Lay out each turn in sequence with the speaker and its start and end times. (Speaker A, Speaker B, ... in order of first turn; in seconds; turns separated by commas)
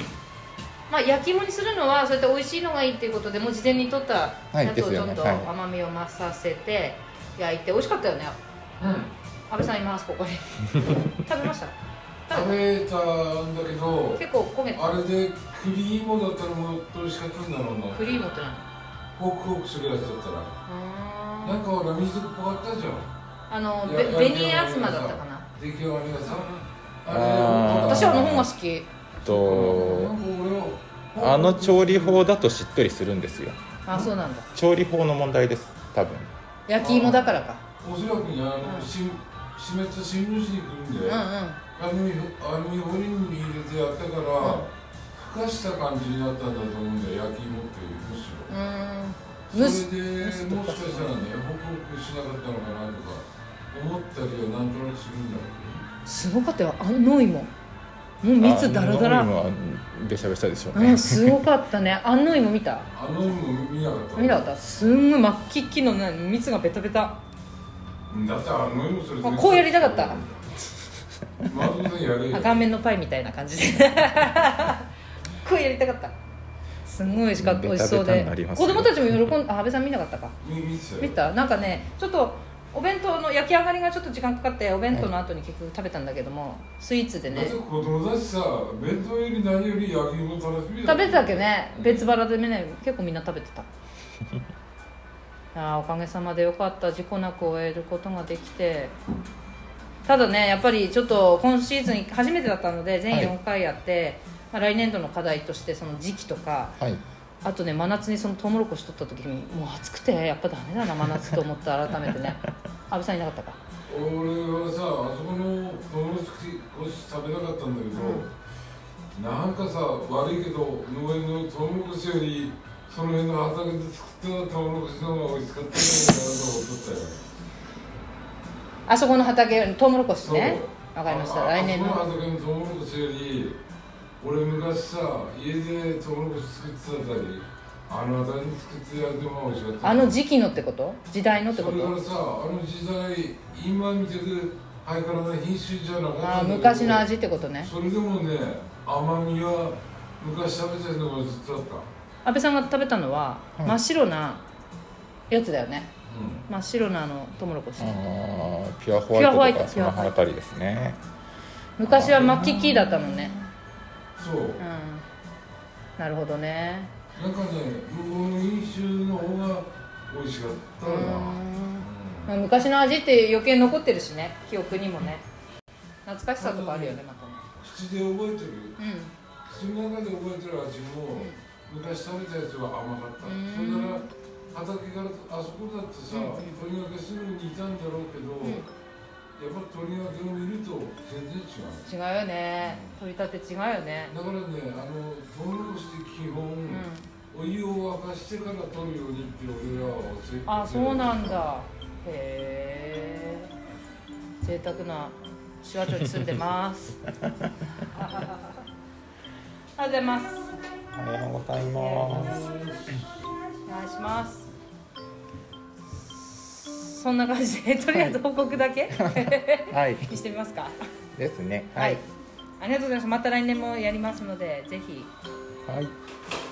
Speaker A: 0.9-8.4, Speaker B: 4.5-5.5, Speaker C: 8.8-9.1, Speaker A: 9.5-11.7, Speaker A: 12.3-12.5, Speaker C: 12.3-18.3, Speaker A: 14.2-14.9, Speaker A: 17.9-18.6, Speaker C: 19.1-20.5, Speaker A: 20.6-21.6, Speaker C: 21.4-23.1, Speaker A: 23.5-25.5, Speaker C: 23.8-28.4, Speaker B: 27.1-28.5, Speaker A: 27.4-28.9, Speaker C: 29.2-32.3, Speaker B: 29.2-30.1, Speaker B: 31.2-33.6, Speaker A: 33.9-34.5, Speaker B: 34.5-36.3, Speaker A: 36.7-37.6, Speaker C: 36.8-48.5, Speaker A: 38.6-38.9, Speaker A: 41.0-41.6, Speaker A: 44.4-44.7, Speaker A: 48.5-51.1, Speaker C: 49.5-55.9, Speaker A: 56.0-57.5, Speaker A: 58.2-59.3, Speaker B: 58.4-61.5, Speaker A: 60.7-62.9, Speaker C: 62.9-64.5, Speaker A: 64.2-67.2, Speaker C: 68.1-70.5, Speaker A: 69.2-70.2, Speaker C: 71.4-72.6, Speaker A: 72.3-74.8, Speaker A: 75.4-76.1, Speaker A: 76.8-80.3, Speaker B: 77.3-79.3, Speaker C: 80.4-81.3, Speaker A: 81.0-87.5, Speaker C: 87.3-92.1, Speaker A: 90.8-93.7, Speaker A: 95.5-99.0, Speaker A: 100.0-106.8, Speaker A: 107.4-113.6, Speaker C: 113.9-118.3, Speaker A: 117.9-118.2, Speaker C: 119.1-127.2, Speaker A: 128.9-132.0, Speaker C: 130.1-133.6, Speaker C: 134.2-140.2, Speaker A: 139.8-141.9, Speaker C: 141.5-147.1, Speaker A: 146.2-147.7, Speaker C: 147.6-151.9, Speaker A: 152.2-154.4, Speaker A: 155.3-155.9, Speaker C: 156.1-156.5, Speaker A: 156.5-158.0, Speaker B: 157.8-161.0, Speaker A: 159.1-160.2, Speaker A: 161.8-163.5, Speaker B: 161.8-163.3, Speaker C: 164.2-164.6, Speaker A: 164.6-165.1, Speaker A: 166.0-166.9, Speaker C: 167.1-172.3, Speaker A: 170.8-175.2, Speaker A: 176.0-177.4, Speaker C: 176.4-177.0, Speaker C: 177.6-178.8, Speaker A: 178.8-179.1, Speaker C: 179.4-188.7, Speaker A: 181.1-181.4, Speaker A: 183.2-184.1, Speaker A: 186.1-186.6, Speaker A: 188.4-188.7, Speaker C: 189.3-191.9, Speaker A: 191.8-194.1, Speaker C: 192.6-193.0, Speaker C: 194.1-201.5, Speaker A: 196.7-197.1, Speaker A: 200.4-203.5, Speaker A: 204.4-207.0, Speaker B: 205.9-206.4, Speaker B: 207.2-207.5, Speaker A: 207.9-208.6, Speaker A: 209.8-210.6, Speaker B: 210.9-212.5, Speaker A: 211.7-212.5, Speaker C: 212.0-213.0, Speaker A: 213.6-214.5, Speaker A: 216.5-220.8, Speaker B: 218.9-220.2, Speaker B: 221.2-222.0, Speaker A: 221.7-222.0, Speaker A: 222.6-225.1, Speaker B: 225.7-225.9